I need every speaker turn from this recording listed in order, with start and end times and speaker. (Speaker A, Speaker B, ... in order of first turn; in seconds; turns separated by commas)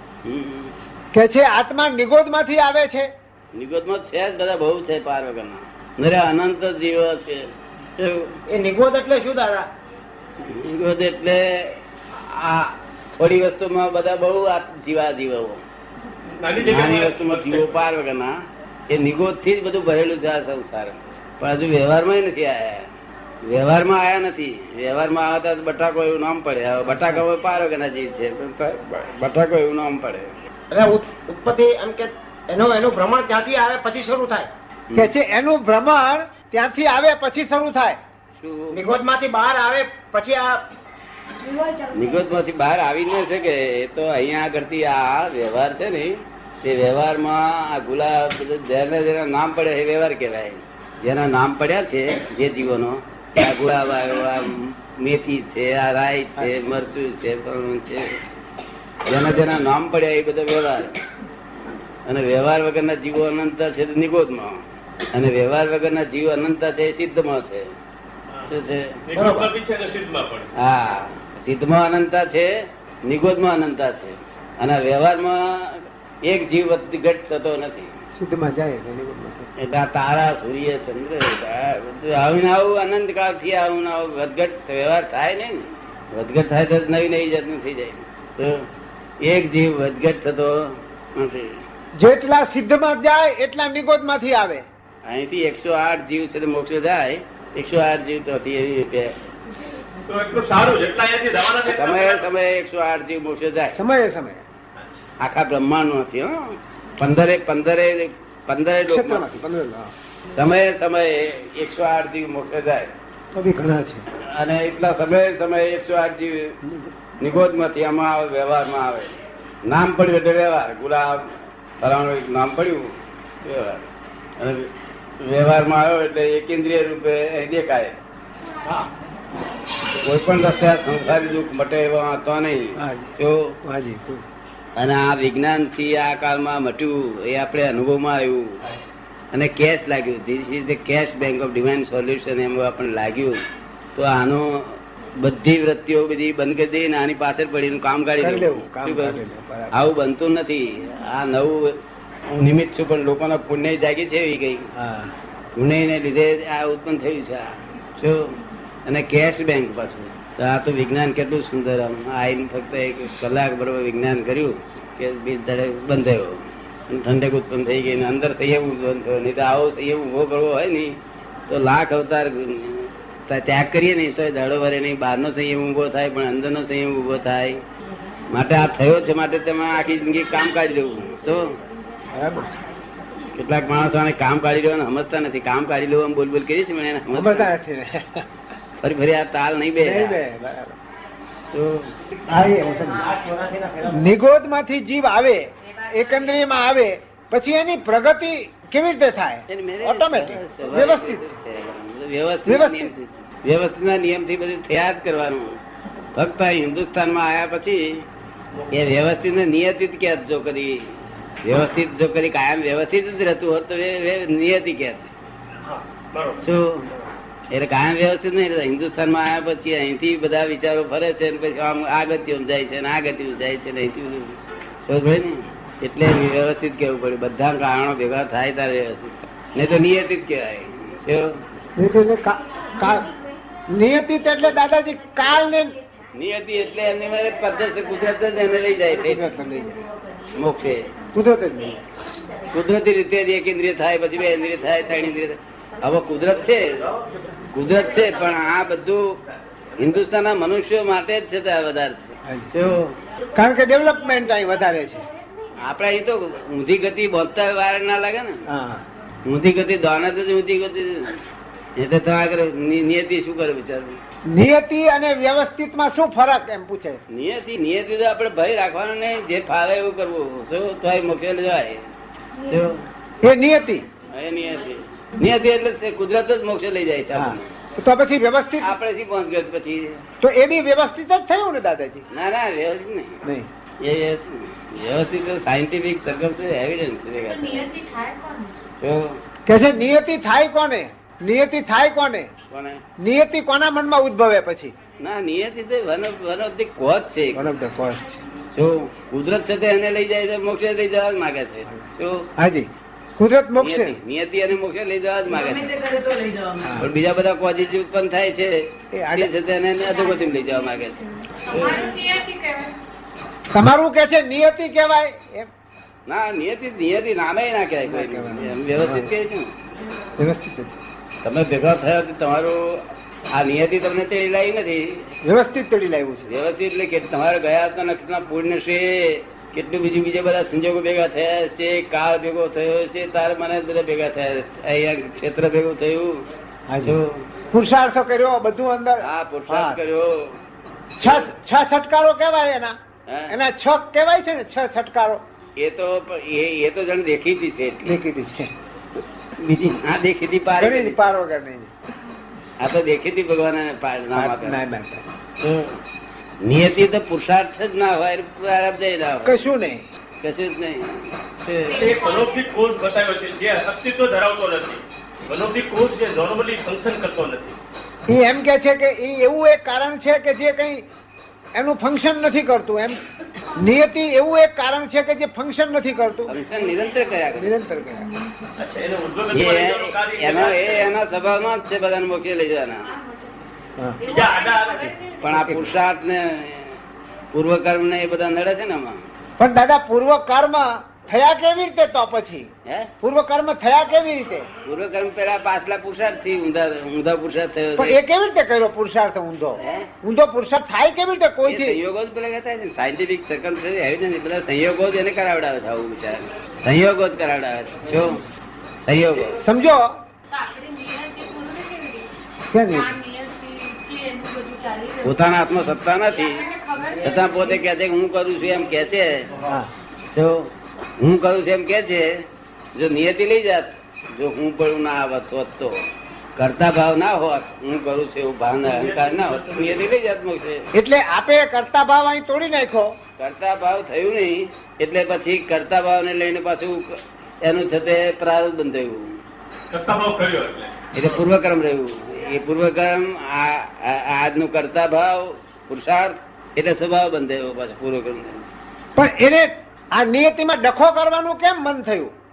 Speaker A: 0.2-0.7, Speaker B: 1.1-3.1, Speaker A: 3.5-8.4, Speaker C: 8.5-9.7, Speaker A: 10.4-15.6, Speaker D: 16.4-17.8, Speaker A: 16.6-18.3, Speaker A: 18.9-22.9, Speaker A: 23.4-30.3, Speaker B: 26.9-27.2, Speaker C: 30.7-34.5, Speaker B: 35.0-38.0, Speaker A: 38.4-38.8, Speaker C: 38.7-40.6, Speaker E: 41.4-42.2, Speaker A: 41.9-58.1, Speaker A: 59.1-61.0, Speaker A: 62.1-64.6, Speaker A: 65.1-67.7, Speaker A: 68.5-68.9, Speaker D: 69.1-70.5, Speaker C: 69.2-69.5, Speaker A: 70.6-72.5, Speaker A: 73.1-77.9, Speaker B: 78.2-79.5, Speaker A: 79.6-88.6, Speaker A: 89.2-90.5, Speaker A: 91.2-91.5, Speaker B: 92.0-94.6, Speaker A: 95.1-99.2, Speaker D: 100.1-102.3, Speaker A: 101.7-103.8, Speaker B: 103.7-104.4, Speaker A: 105.2-109.4, Speaker B: 108.9-109.9, Speaker A: 110.3-112.9, Speaker B: 113.3-114.0, Speaker A: 114.2-116.5, Speaker A: 117.2-119.1, Speaker A: 119.7-121.3, Speaker A: 121.8-122.9, Speaker A: 123.4-123.8, Speaker A: 124.4-124.7, Speaker A: 125.2-128.0, Speaker A: 130.0-133.6, Speaker B: 132.8-133.1, Speaker B: 133.7-134.2, Speaker A: 134.8-138.5, Speaker A: 139.3-143.4, Speaker A: 143.9-149.2, Speaker B: 148.2-149.8, Speaker A: 149.7-151.7, Speaker A: 152.3-154.7, Speaker B: 154.8-155.1, Speaker A: 155.6-157.5, Speaker A: 158.0-158.4, Speaker A: 158.9-170.9, Speaker A: 171.5-177.6, Speaker A: 178.3-181.4, Speaker B: 182.1-182.6, Speaker A: 183.3-187.5, Speaker B: 187.1-188.2, Speaker A: 188.8-190.2, Speaker B: 189.8-190.8, Speaker A: 191.5-191.9, Speaker B: 192.3-193.0, Speaker C: 192.9-194.0, Speaker B: 193.9-201.4, Speaker A: 199.5-205.6, Speaker B: 202.5-202.9, Speaker A: 206.2-208.1, Speaker A: 208.7-210.8, Speaker A: 211.4-215.1, Speaker D: 215.7-216.4, Speaker A: 216.4-216.9, Speaker A: 217.5-231.2, Speaker B: 231.8-233.1, Speaker B: 233.7-235.7, Speaker A: 236.2-239.3, Speaker B: 239.0-239.8, Speaker A: 240.3-240.8, Speaker B: 241.1-241.8, Speaker A: 242.5-246.8, Speaker D: 246.9-247.2, Speaker A: 247.5-249.2, Speaker A: 249.8-252.9, Speaker B: 252.3-252.5, Speaker B: 253.3-255.1, Speaker A: 255.7-258.4, Speaker B: 258.5-258.8, Speaker A: 259.3-261.2, Speaker A: 261.8-264.0, Speaker B: 264.3-267.0, Speaker A: 267.1-271.8, Speaker A: 272.4-272.8, Speaker B: 273.2-273.9, Speaker A: 274.1-277.5, Speaker B: 277.1-278.7, Speaker A: 278.6-280.0, Speaker B: 280.2-282.0, Speaker A: 282.1-283.2, Speaker A: 283.8-287.7, Speaker F: 287.3-288.5, Speaker A: 288.8-289.2, Speaker B: 289.5-292.3, Speaker A: 292.5-292.8, Speaker B: 293.0-294.7, Speaker A: 295.0-297.4, Speaker B: 297.3-298.2, Speaker A: 298.5-302.3, Speaker B: 302.4-304.0, Speaker A: 303.6-305.8, Speaker E: 305.3-306.7, Speaker B: 306.6-306.9, Speaker A: 306.8-308.6, Speaker B: 308.9-309.3, Speaker A: 309.1-311.9, Speaker F: 311.5-312.7, Speaker B: 313.5-315.5, Speaker A: 316.1-319.5, Speaker B: 317.9-319.1, Speaker B: 320.2-320.8, Speaker A: 321.2-325.1, Speaker B: 325.2-326.3, Speaker A: 326.3-336.3, Speaker B: 336.7-337.0, Speaker A: 336.8-337.3, Speaker B: 337.5-339.8, Speaker A: 339.0-340.4, Speaker B: 341.0-342.7, Speaker A: 341.0-341.3, Speaker A: 343.1-343.3, Speaker B: 343.3-345.2, Speaker A: 345.6-348.0, Speaker B: 347.9-348.5, Speaker A: 349.4-351.1, Speaker B: 350.6-351.7, Speaker A: 352.6-354.8, Speaker B: 354.1-355.0, Speaker A: 355.4-355.8, Speaker A: 356.4-359.4, Speaker B: 359.2-359.8, Speaker A: 360.2-361.9, Speaker F: 361.7-362.4, Speaker D: 361.7-367.6, Speaker B: 368.1-370.8, Speaker B: 371.6-373.0, Speaker B: 373.6-376.3, Speaker A: 376.3-377.6, Speaker B: 377.4-378.1, Speaker D: 378.6-380.9, Speaker A: 379.3-382.9, Speaker F: 383.0-383.2, Speaker F: 384.0-385.1, Speaker D: 384.0-385.0, Speaker A: 385.2-386.8, Speaker B: 385.4-385.7, Speaker A: 387.3-389.0, Speaker B: 389.4-392.5, Speaker B: 393.0-394.5, Speaker A: 394.6-398.0, Speaker B: 397.8-401.8, Speaker A: 399.6-399.9, Speaker A: 401.5-408.2, Speaker A: 408.8-409.4, Speaker B: 409.4-409.9, Speaker F: 410.3-412.1, Speaker B: 412.5-413.0, Speaker F: 412.7-415.1, Speaker A: 415.0-416.5, Speaker F: 416.1-417.4, Speaker A: 417.0-419.3, Speaker A: 420.1-422.1, Speaker A: 422.8-425.8, Speaker A: 426.4-430.7, Speaker D: 428.6-429.9, Speaker B: 430.7-432.9, Speaker A: 433.2-439.1, Speaker D: 439.7-441.2, Speaker A: 440.9-448.5, Speaker B: 449.0-452.1